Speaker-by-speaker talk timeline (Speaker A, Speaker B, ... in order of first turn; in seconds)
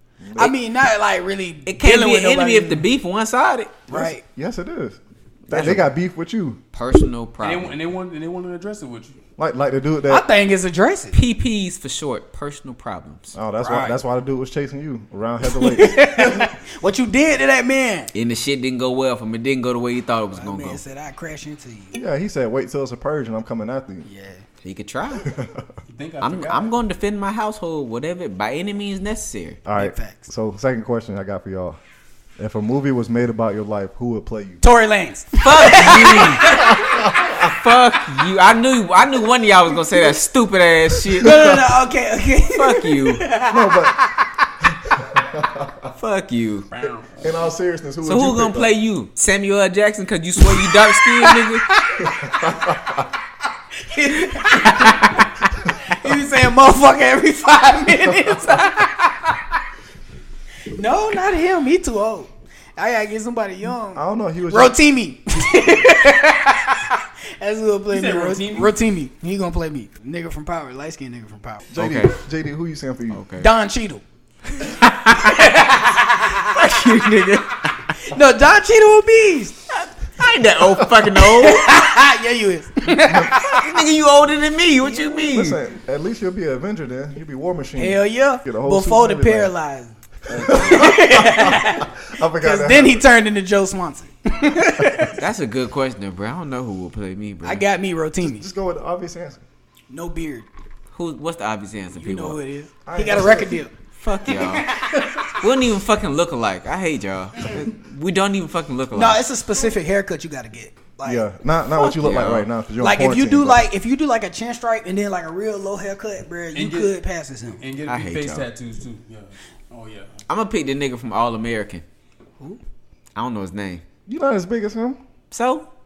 Speaker A: 0.2-0.6, 3.9-6.6, 9.4-10.2, 13.3-16.5, 21.9-24.1, 25.2-25.7, 29.6-31.8, 32.4-34.6, 36.5-37.5, 41.2-41.6, 43.5-44.0, 44.9-45.9, 46.8-48.7, 52.0-53.1, 63.9-64.8, 71.7-73.2, 80.7-81.0, 82.9-83.4, 85.3-89.5, 90.3-93.0, 94.8-95.1, 98.2-99.4, 102.8-103.6, 111.0-113.6, 124.0-125.0
Speaker B: 0.4-2.8, 3.9-4.2, 10.1-11.2, 13.6-13.9, 15.4-18.1, 20.3-22.0, 24.0-24.4, 29.7-30.3, 34.6-37.0, 41.2-44.4, 50.4-52.6, 53.7-55.2, 55.9-59.5, 60.7-71.6, 73.4-74.0, 75.1-76.8, 78.0-79.6, 81.2-83.7, 87.8-95.1, 97.4-98.5, 99.9-100.5, 102.0-105.4, 108.9-111.2, 111.8-112.1, 112.8-117.6
Speaker C: 1.7-3.8, 5.5-5.8, 6.7-7.8, 11.1-13.3, 18.1-20.8, 24.6-25.3, 26.2-29.6, 35.4-36.8, 37.4-41.6, 42.5-43.2, 45.9-46.7, 48.0-51.6, 54.4-55.1, 71.8-72.1, 73.1-73.5, 74.6-75.5, 76.5-77.8, 79.7-81.9, 83.3-85.6, 90.3-90.8, 95.1-97.6, 100.9-102.4, 104.0-109.2, 112.0-112.5, 117.8-118.5, 120.3-121.8, 123.1-123.8, 125.3-125.7
Speaker D: 7.4-9.2, 25.9-26.7, 46.7-47.4, 67.9-68.7, 116.5-117.0, 117.6-120.1